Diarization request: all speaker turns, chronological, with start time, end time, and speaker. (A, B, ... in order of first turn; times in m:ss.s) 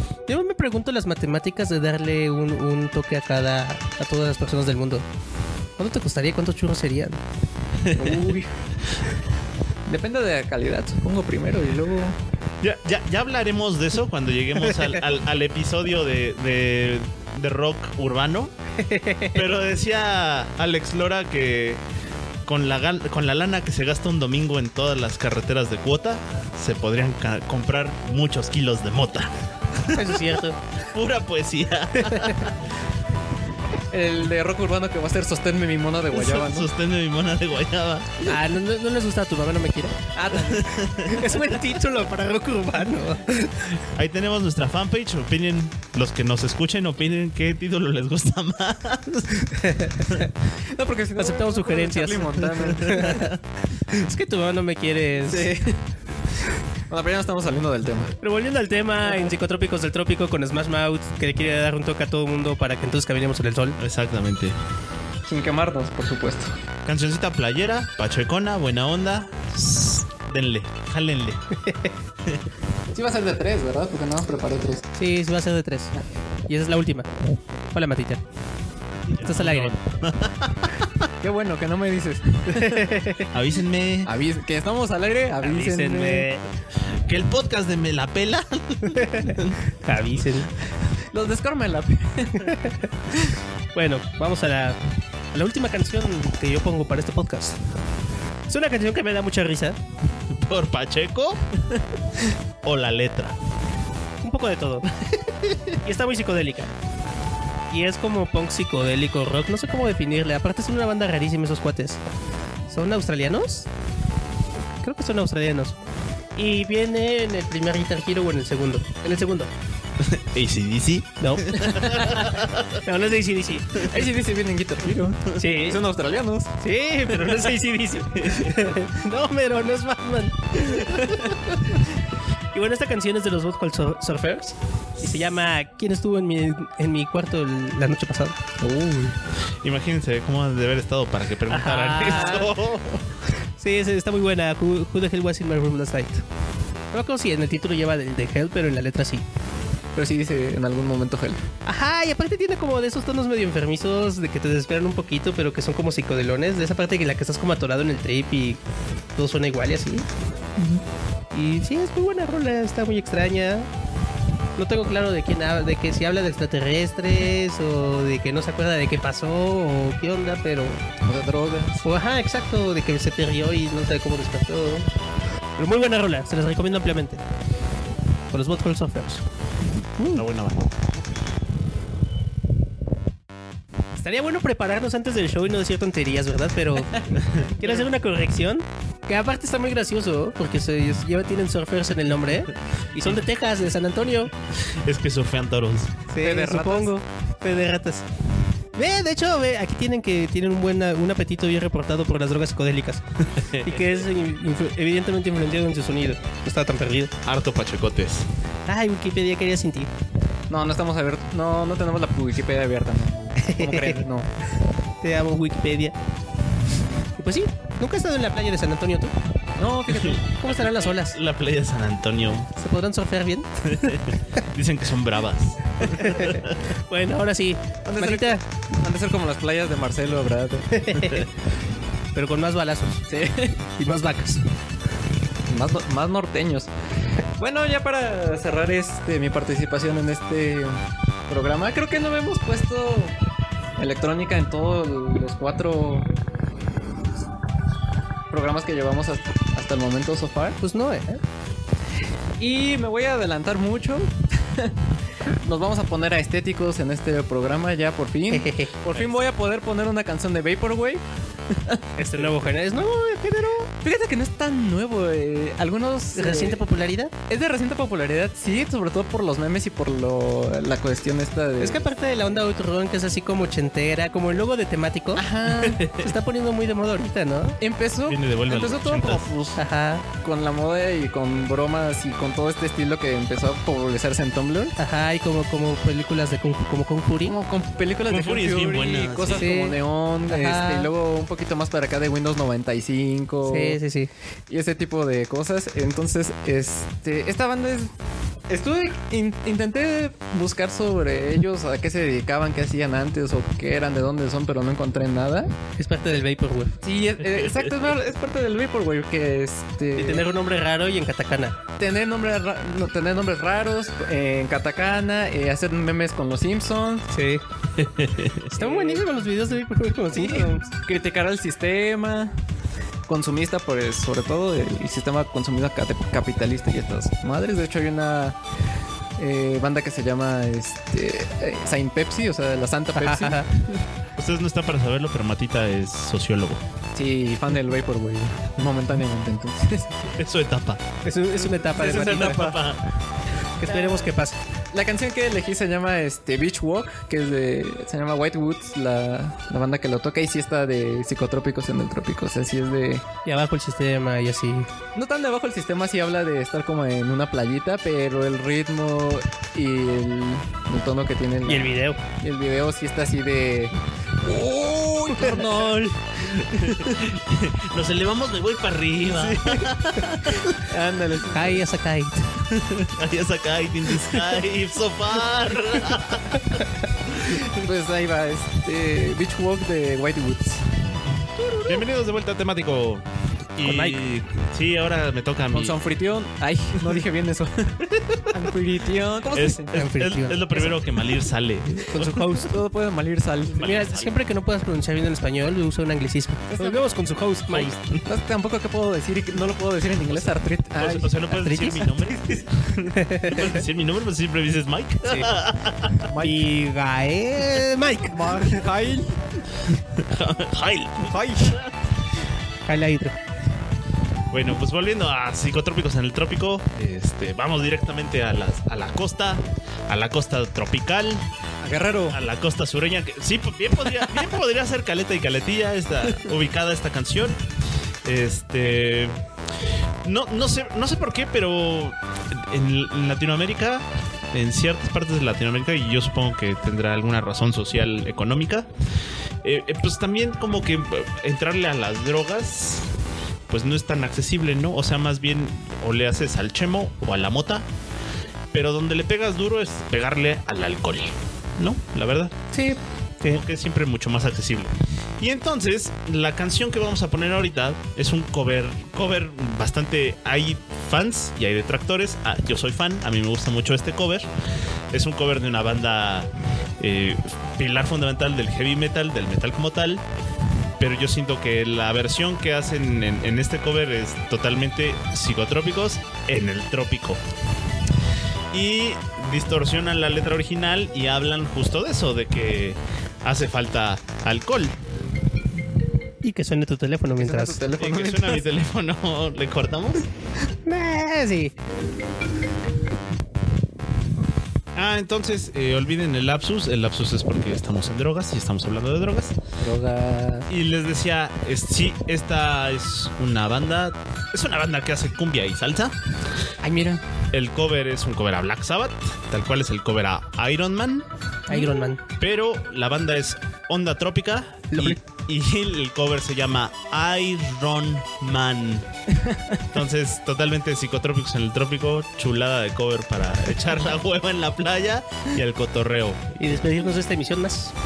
0:00.3-0:05.0 A
0:05.8-0:07.2 A
0:07.8-0:08.2 B
0:07.9-0:08.5 C
0:09.9-0:12.2 C
0:12.6-0:18.5 B
0:18.8-0:19.4 A
0:19.3-0:21.8 B
0:22.4-0:32.6 B
0:29.9-0:30.6 A
0:32.0-0:32.4 A
0:33.9-0:36.7 C
0:36.1-0:38.3 B
0:38.2-0:40.1 A
0:40.1-0:40.8 C
0:40.5-0:41.2 B
0:40.9-0:43.8 A
0:43.9-0:49.5 B
0:49.5-0:50.3 A
0:50.6-0:53.2 C
0:51.2-0:55.5 A
0:52.8-0:53.4 B
0:55.2-0:55.8 C
0:56.9-0:58.1 C
0:58.2-1:03.8 A
1:03.8-1:04.6 B
1:05.2-1:06.5 C
1:06.8-1:11.4 B
1:11.6-1:11.9 A
1:12.9-1:14.9 C
1:15.0-1:16.0 A
1:16.5-1:18.2 A
1:19.1-1:21.0 B
1:19.2-1:19.8 A
1:21.2-1:23.0 C
1:22.5-1:23.3 A
1:23.3-1:24.1 B
1:24.0-1:26.3 C
1:25.4-1:26.4 A
1:27.1-1:29.6 B
1:28.8-1:30.5 A
1:31.1-1:32.6 C
1:32.4-1:32.9 A
1:33.1-1:33.4 C
1:33.7-1:34.8 A
1:35.3-1:37.6 A
1:38.5-1:39.8 A
1:40.3-1:41.5 B
1:42.6-1:43.4 B
1:44.2-1:44.9 A
1:45.0-1:45.7 B
1:45.8-1:46.7 A
1:47.7-1:52.0 A
1:52.7-1:53.7 A
1:54.8-1:55.8 A
1:56.4-1:59.5 A
2:00.0-2:02.8 B
2:01.2-2:02.2 A
2:01.7-2:02.2 C
2:02.7-2:03.9 A
2:03.8-2:06.5 C
2:05.3-2:05.8 A
2:06.6-2:11.3 A
2:07.1-2:07.5 C
2:08.2-2:08.6 B
2:12.5-2:18.6 A
2:18.6-2:19.2 C
2:19.6-2:23.0 B
2:21.5-2:22.5 A
2:22.0-2:22.5 C
2:23.6-2:26.2 A
2:26.9-2:29.2 A
2:29.9-2:31.4 C
2:31.6-2:38.6 A
2:39.2-2:40.1 A
2:41.3-2:43.7 A
2:44.6-2:50.9 A
2:51.0-2:51.8 C
2:51.8-2:54.9 A
2:55.6-2:57.2 A
2:58.3-2:59.2 A
3:00.0-3:00.2 A
3:00.1-3:00.7 B
3:04.0-3:14.3 A
3:14.6-3:16.0 B
3:16.1-3:18.0 A
3:16.2-3:17.0 C
3:18.7-3:23.0 A
3:23.3-3:24.0 B
3:23.6-3:27.1 A
3:27.2-3:28.3 B
3:28.7-3:29.9 A
3:30.5-3:34.3 C
3:33.4-3:34.0 A
3:35.0-3:36.0 A
3:37.2-3:39.1 A
3:39.6-3:40.2 C
3:39.9-3:42.5 B
3:40.4-3:41.2 A
3:42.5-3:44.0 A
3:43.7-3:46.6 B
3:45.8-3:48.4 A
3:47.8-3:50.8 C
3:50.7-3:51.3 A
3:52.1-3:53.1 A
3:53.1-3:53.6 C
3:53.8-3:54.4 A
3:55.5-3:56.7 C
3:57.4-4:00.7 C
4:01.3-4:03.2 C
4:03.8-4:06.1 C
4:08.3-4:10.6 C
4:10.6-4:11.2 A
4:12.4-4:21.8 C
4:18.3-4:18.7 A
4:22.0-4:23.7 A
4:23.8-4:26.6 C
4:26.1-4:27.1 A
4:27.3-4:31.9 C
4:31.6-4:35.2 A
4:35.2-4:35.8 C
4:35.6-4:36.1 B
4:35.9-4:37.6 A
4:37.6-4:39.6 C
4:38.1-4:39.3 B
4:39.6-4:40.0 A
4:40.2-4:44.7 C
4:44.8-4:47.3 A
4:47.2-4:53.8 C
4:48.1-4:49.5 B
4:49.4-4:50.9 A
4:53.4-4:54.1 A
4:54.5-4:57.9 C
4:58.5-5:05.5 C
5:05.8-5:06.8 A
5:06.8-5:10.3 C
5:10.0-5:11.6 A
5:11.8-5:17.1 C
5:17.1-5:17.4 A
5:17.8-5:18.5 B
5:18.5-5:20.7 A
5:18.6-5:19.1 C
5:20.1-5:22.3 C
5:23.1-5:28.4 C
5:29.2-5:33.8 C
5:32.9-5:33.5 A
5:34.2-5:36.6 B
5:36.9-5:40.1 C
5:40.2-5:40.8 B
5:41.0-5:42.5 A
5:41.5-5:42.6 C
5:41.8-5:42.8 B
5:43.6-5:44.4 A
5:43.6-5:44.1 C
5:44.7-5:53.0 C
5:53.2-5:54.7 A
5:54.9-6:06.9 C
6:01.4-6:02.0 A
6:06.2-6:10.6 B
6:09.1-6:09.7 C
6:10.2-6:11.6 C
6:11.3-6:12.5 A
6:12.5-6:16.6 B
6:17.1-6:17.4 B
6:17.2-6:20.7 C
6:21.6-6:25.8 B
6:23.6-6:24.0 A
6:25.5-6:29.7 C
6:29.3-6:32.2 B
6:29.7-6:30.7 A
6:31.9-6:32.5 A
6:32.3-6:33.7 C
6:33.5-6:34.2 B
6:33.6-6:37.7 A
6:36.5-6:36.8 C
6:37.5-6:38.0 B
6:38.0-6:41.1 C
6:40.8-6:46.1 B
6:41.3-6:41.9 A
6:42.0-6:42.4 C
6:42.9-6:43.5 A
6:45.0-6:45.3 A
6:46.0-6:46.4 C
6:46.2-6:48.6 A
6:48.0-6:49.3 C
6:50.0-6:51.7 B
6:51.0-6:51.6 C
6:52.7-6:53.2 A
6:54.3-7:01.2 B
7:01.6-7:02.2 C
7:02.1-7:07.4 B
7:08.0-7:09.2 B
7:10.0-7:18.7 B
7:19.4-7:22.9 B
7:23.5-7:27.6 B
7:28.5-7:32.3 B
7:32.5-7:33.4 A
7:33.3-7:44.3 B
7:44.9-7:50.0 B
7:50.8-7:57.2 B
7:58.5-8:04.8 B
8:06.2-8:07.6 A
8:07.2-8:08.4 C
8:07.8-8:10.1 B
8:10.6-8:11.5 A
8:14.7-8:19.4 B
8:19.6-8:20.5 C
8:20.5-8:25.9 B
8:26.6-8:27.0 C
8:27.3-8:31.1 B
8:31.5-8:32.0 A
8:31.5-8:31.8 C
8:32.2-8:38.9 B
8:34.7-8:35.0 A
8:39.1-8:39.6 C
8:39.7-8:46.3 B
8:46.4-8:47.7 A